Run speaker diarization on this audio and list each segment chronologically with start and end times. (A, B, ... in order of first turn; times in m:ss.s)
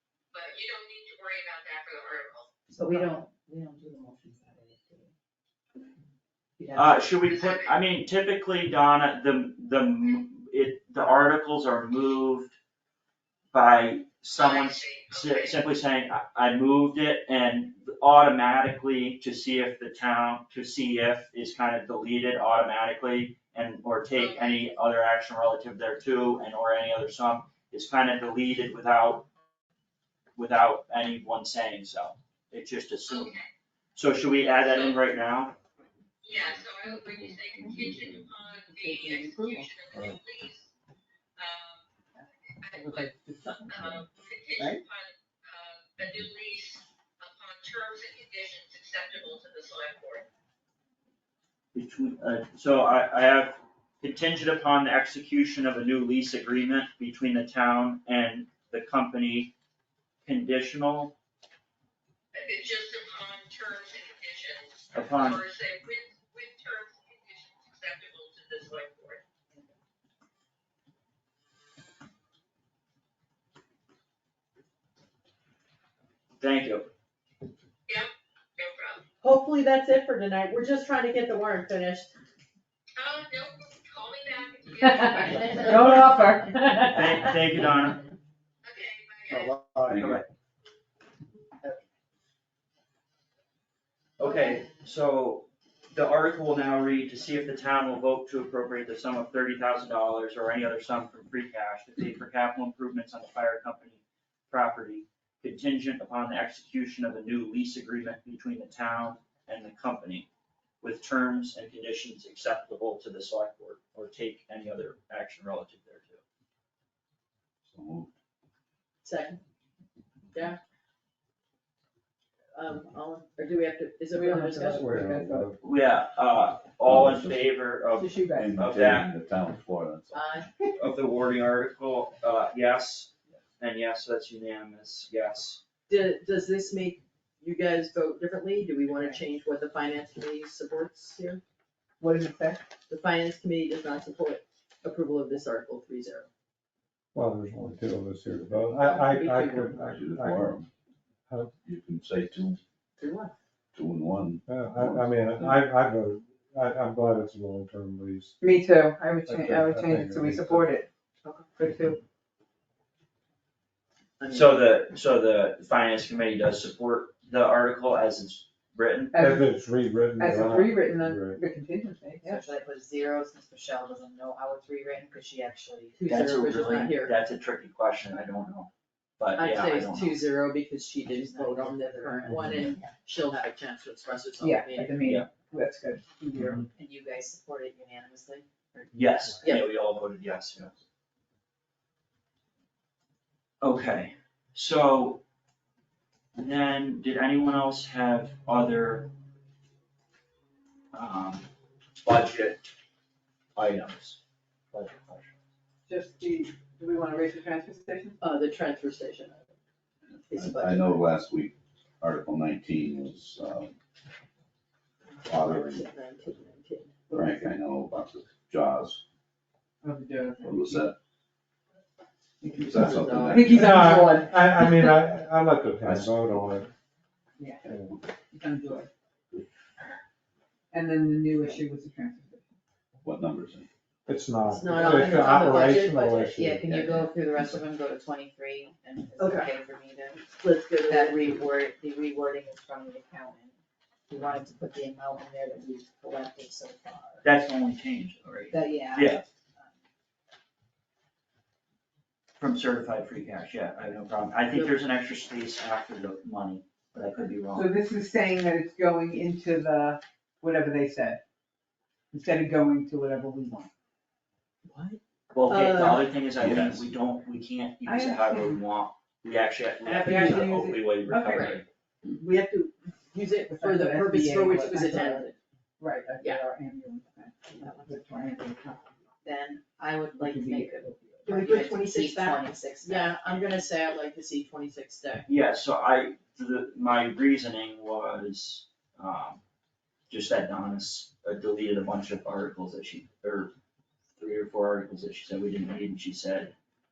0:00.3-0:02.5 A
0:02.7-0:05.1 B
0:06.6-0:07.2 B
0:06.7-0:12.5 C
0:07.2-0:07.8 A
0:13.5-0:29.3 C
0:14.3-0:15.6 A
0:24.1-0:24.8 A
0:30.4-0:33.4 C
0:33.1-0:33.5 A
0:34.0-0:35.6 C
0:34.4-0:35.0 A
0:36.2-0:40.7 A
0:37.6-0:38.2 D
0:38.8-0:39.6 B
0:38.8-0:39.5 E
0:41.4-0:41.8 A
0:42.6-0:43.2 A
0:42.7-0:44.0 E
0:43.7-0:50.2 A
0:51.7-0:59.5 C
1:00.2-1:01.1 C
1:02.3-1:09.2 A
1:04.9-1:05.4 C
1:16.4-1:16.9 C
1:17.9-1:19.0 A
1:19.2-1:22.1 F
1:23.0-1:25.8 A
1:25.6-1:25.9 B
1:25.6-1:26.2 C
1:25.8-1:27.1 E
1:26.9-1:28.0 C
1:28.6-1:29.6 A
1:29.3-1:30.0 G
1:29.9-1:30.2 D
1:29.9-1:30.2 C
1:34.2-1:50.3 C
1:50.8-1:56.2 C
1:57.6-1:58.1 D
1:59.0-1:59.4 F
2:00.3-2:00.6 F
2:02.5-2:04.9 F
2:04.1-2:05.5 E
2:04.8-2:05.6 G
2:05.6-2:09.1 C
2:06.8-2:07.5 D
2:07.9-2:08.6 E
2:08.3-2:10.4 D
2:10.1-2:10.5 F
2:10.7-2:15.6 C
2:15.9-2:21.4 F
2:22.0-2:22.6 E
2:22.9-2:26.3 F
2:27.1-2:30.6 G
2:28.7-2:30.0 F
2:29.8-2:30.7 D
2:31.6-2:32.6 D
2:33.0-2:33.3 F
2:33.7-2:35.7 D
2:34.4-2:38.4 G
2:38.4-2:40.9 E
2:39.2-2:40.7 G
2:41.5-2:42.0 E
2:44.2-2:44.6 F
2:44.3-2:49.2 C
2:49.1-2:52.5 E
2:49.2-2:51.4 G
2:52.2-2:56.0 B
2:56.0-2:57.2 F
2:56.1-3:00.2 C
2:59.4-3:05.2 F
3:01.1-3:02.9 B
3:04.4-3:06.6 E
3:06.7-3:09.6 B
3:08.9-3:10.7 C
3:09.4-3:09.7 F
3:13.6-3:15.2 C
3:16.3-3:19.1 C
3:20.9-3:21.5 C
3:22.0-3:22.7 C
3:23.6-3:24.2 C
3:24.7-3:25.3 C
3:25.9-3:28.2 E
3:28.2-3:29.5 F
3:30.2-3:33.7 D
3:30.3-3:31.0 F
3:35.2-3:35.9 D
3:35.4-3:37.0 F
3:37.1-3:37.5 E
3:37.1-3:39.0 D
3:39.8-3:40.9 E
3:40.4-3:41.0 D
3:42.4-3:45.0 E
3:42.4-3:43.8 D
3:42.6-3:43.6 F
3:43.6-3:46.7 G
3:45.8-3:46.5 D
3:47.4-3:48.9 E
3:47.6-3:47.9 G
3:50.7-3:52.4 E
3:53.0-3:53.7 D
3:54.1-3:56.9 G
3:54.5-3:56.1 F
3:54.5-4:00.3 B
3:59.2-3:59.5 F
4:00.3-4:01.4 F
4:00.8-4:03.6 B
4:04.1-4:07.2 B
4:07.2-4:09.2 C
4:08.5-4:09.6 B
4:12.4-4:17.7 C
4:17.5-4:21.2 E
4:22.1-4:23.7 E
4:24.6-4:26.1 F
4:25.3-4:31.6 C
4:26.3-4:26.9 D
4:27.8-4:28.6 E
4:29.8-4:35.4 F
4:30.0-4:31.6 E
4:33.4-4:38.9 E
4:37.6-4:37.9 B
4:39.2-4:43.6 B
4:40.2-4:41.1 E
4:41.3-4:45.3 F
4:45.2-4:49.4 C
4:50.1-4:53.5 C
4:54.2-4:56.5 C